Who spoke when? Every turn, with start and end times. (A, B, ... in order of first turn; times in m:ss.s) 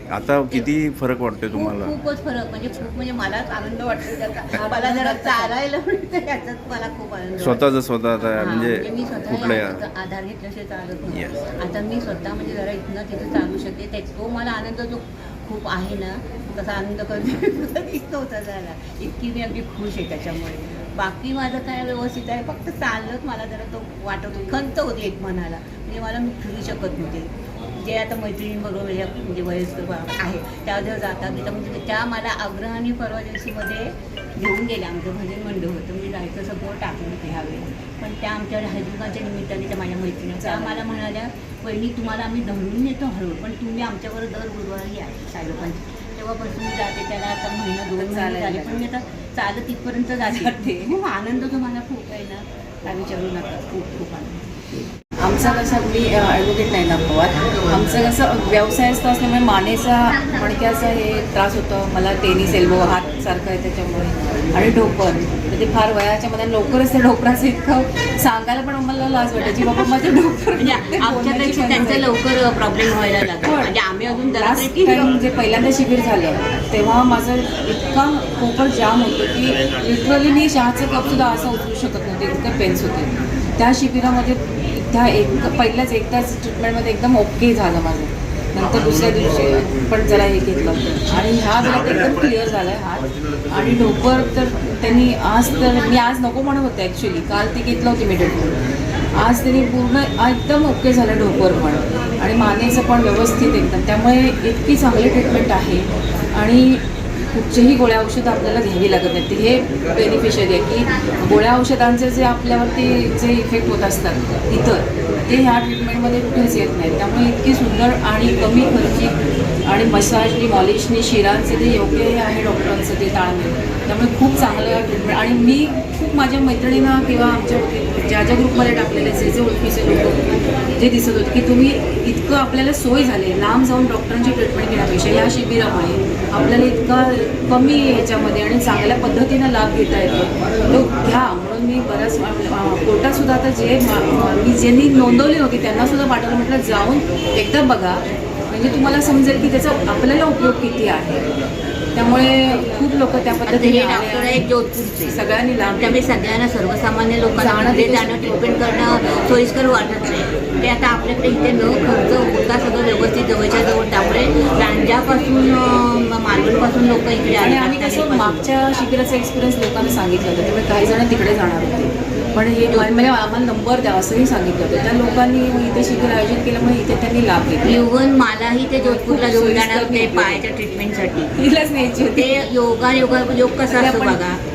0:00.1-0:01.9 A
0:01.5-0:07.6 B
0:04.5-0:05.5 C
0:07.4-0:09.8 A
0:08.3-0:54.6 B
0:11.1-0:11.4 A
0:40.4-0:40.8 C
0:47.9-0:48.8 C
0:50.2-0:50.9 C
0:55.2-1:12.1 C
1:10.6-1:15.2 B
1:13.4-1:13.7 C
1:14.4-1:38.6 C
1:39.2-1:59.1 C
1:59.6-2:10.2 C
2:10.7-2:31.2 C
2:31.9-2:34.4 C
2:33.4-2:48.4 B
2:35.0-2:36.0 C
2:37.4-2:38.3 C
2:47.4-2:57.8 C
2:52.7-2:53.1 B
2:57.6-3:01.3 B
2:58.8-3:00.4 C
3:01.4-3:02.3 C
3:02.1-3:04.4 B
3:03.7-3:04.2 C